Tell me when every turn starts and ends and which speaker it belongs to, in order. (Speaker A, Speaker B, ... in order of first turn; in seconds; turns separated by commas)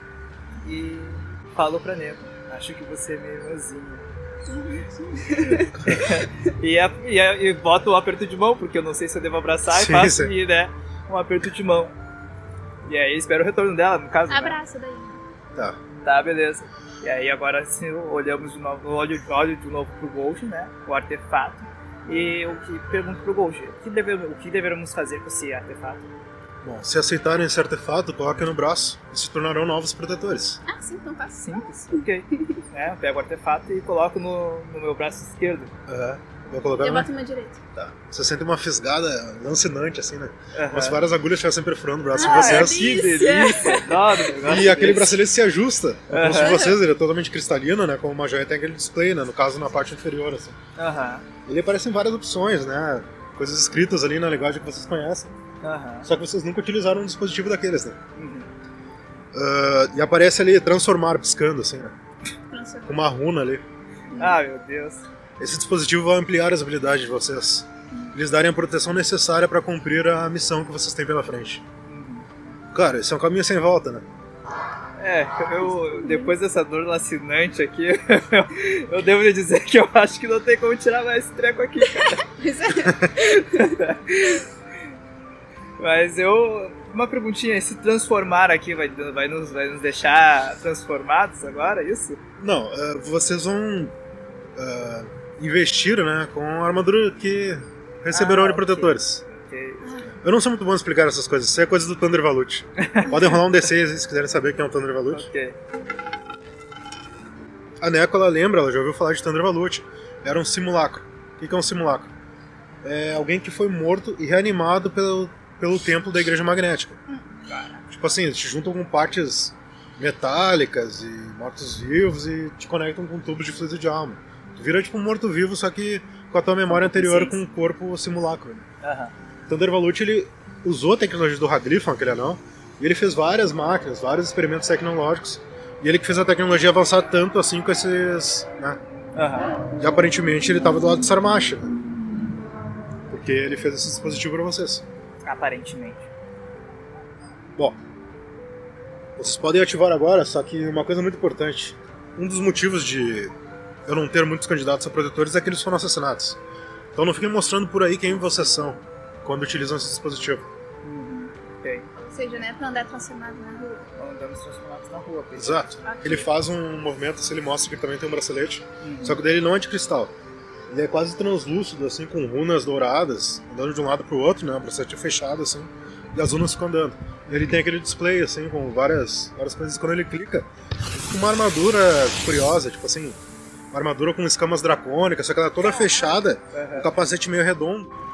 Speaker A: 0.6-4.0, Speaker B: 4.5-6.0, Speaker A: 5.2-11.9, Speaker C: 9.7-10.3, Speaker A: 12.8-14.6, Speaker B: 14.3-15.2, Speaker A: 16.0-26.1, Speaker C: 26.6-30.6, Speaker B: 30.6-32.6, Speaker A: 31.4-35.7, Speaker C: 35.9-37.1, Speaker B: 36.6-37.6, Speaker C: 37.7-42.9, Speaker A: 40.5-41.0, Speaker B: 42.1-44.0, Speaker A: 42.2-45.2, Speaker C: 44.4-50.6, Speaker A: 46.1-46.6, Speaker B: 46.4-46.7, Speaker A: 50.8-51.2, Speaker C: 51.5-55.3, Speaker A: 55.6-56.1, Speaker C: 56.0-58.0, Speaker A: 58.1-58.5, Speaker C: 59.3-61.9, Speaker B: 62.5-63.1, Speaker C: 62.9-63.6, Speaker A: 64.1-65.0, Speaker B: 64.1-64.4, Speaker C: 65.4-71.6, Speaker A: 71.8-72.3, Speaker C: 72.7-74.0, Speaker A: 75.0-82.3, Speaker B: 75.6-76.3, Speaker B: 82.0-83.7, Speaker A: 83.2-84.5, Speaker A: 85.8-92.2, Speaker C: 92.4-93.9, Speaker C: 94.5-99.2, Speaker A: 98.1-99.9, Speaker B: 99.8-100.1, Speaker C: 100.2-105.3, Speaker A: 102.8-103.3, Speaker A: 105.1-105.6, Speaker C: 107.8-112.1, Speaker C: 112.8-117.0, Speaker C: 117.9-128.7, Speaker B: 126.9-127.3, Speaker A: 128.8-129.1, Speaker C: 129.5-138.8, Speaker A: 139.1-139.5, Speaker C: 139.8-141.7, Speaker C: 143.1-144.8, Speaker A: 145.2-146.1, Speaker C: 149.2-153.3, Speaker C: 153.8-156.4, Speaker C: 156.9-160.4, Speaker A: 160.8-161.8, Speaker B: 162.0-163.8, Speaker A: 164.0-165.7, Speaker C: 165.3-170.1, Speaker B: 165.8-166.3, Speaker A: 168.8-169.2, Speaker C: 170.7-183.2, Speaker C: 183.7-187.9, Speaker B: 185.7-186.2, Speaker A: 186.5-186.9